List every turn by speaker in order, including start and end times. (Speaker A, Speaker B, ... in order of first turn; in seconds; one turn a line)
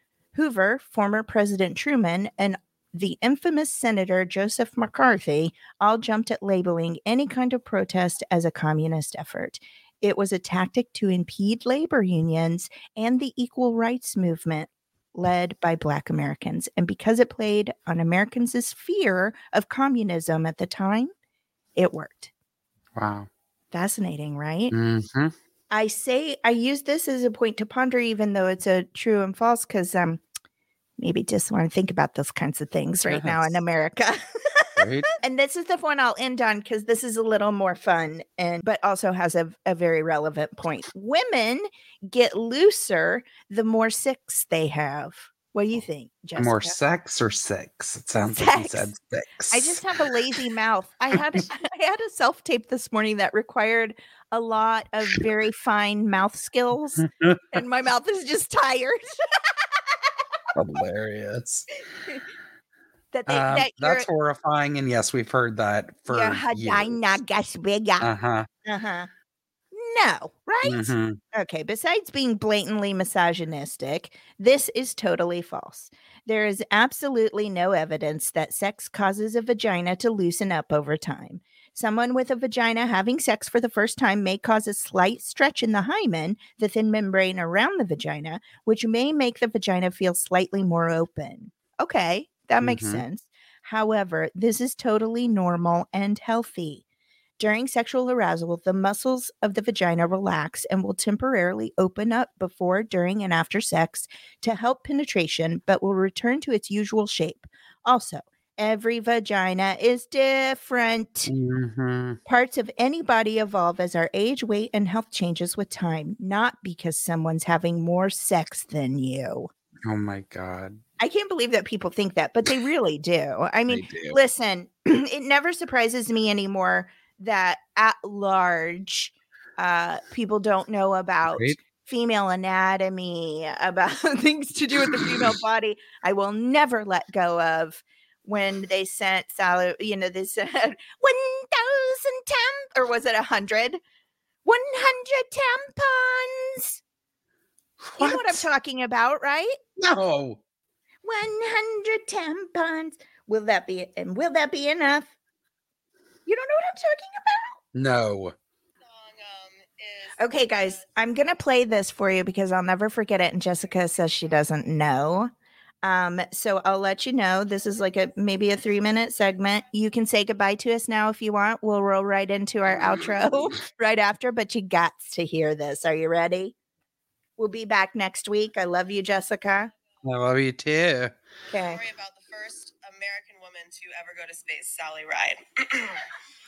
Speaker A: 0.3-21.1
Speaker A: 21.8-22.3
Speaker B: 22.9-23.3
Speaker A: 23.7-24.8
Speaker B: 24.7-25.3
Speaker A: 25.7-30.2
Speaker A: 31.0-46.8
Speaker B: 33.1-33.6
Speaker B: 34.8-35.1
Speaker B: 46.4-49.8
Speaker A: 48.3-48.9
Speaker A: 49.5-60.1
Speaker B: 57.0-57.4
Speaker B: 60.5-61.7
Speaker A: 63.1-64.1
Speaker B: 63.3-67.0
Speaker A: 66.1-68.1
Speaker B: 68.0-68.5
Speaker A: 68.7-69.1
Speaker A: 69.7-96.8
Speaker B: 70.6-71.2
Speaker B: 92.6-93.0
Speaker A: 97.4-111.3
Speaker B: 111.3-112.2
Speaker A: 112.3-119.5
Speaker B: 119.8-120.8
Speaker A: 121.0-143.8
Speaker B: 123.7-124.2
Speaker B: 134.9-135.2
Speaker A: 144.4-146.8
Speaker B: 147.8-148.4
Speaker A: 148.0-149.6
Speaker B: 149.8-150.4
Speaker A: 151.0-155.1
Speaker A: 156.3-157.6
Speaker B: 157.7-158.3
Speaker C: 158.8-160.8
Speaker A: 160.2-165.3
Speaker A: 165.8-176.6
Speaker B: 172.7-173.3
Speaker A: 177.4-179.7
Speaker B: 180.0-181.1
Speaker A: 181.5-181.8
Speaker C: 181.5-186.0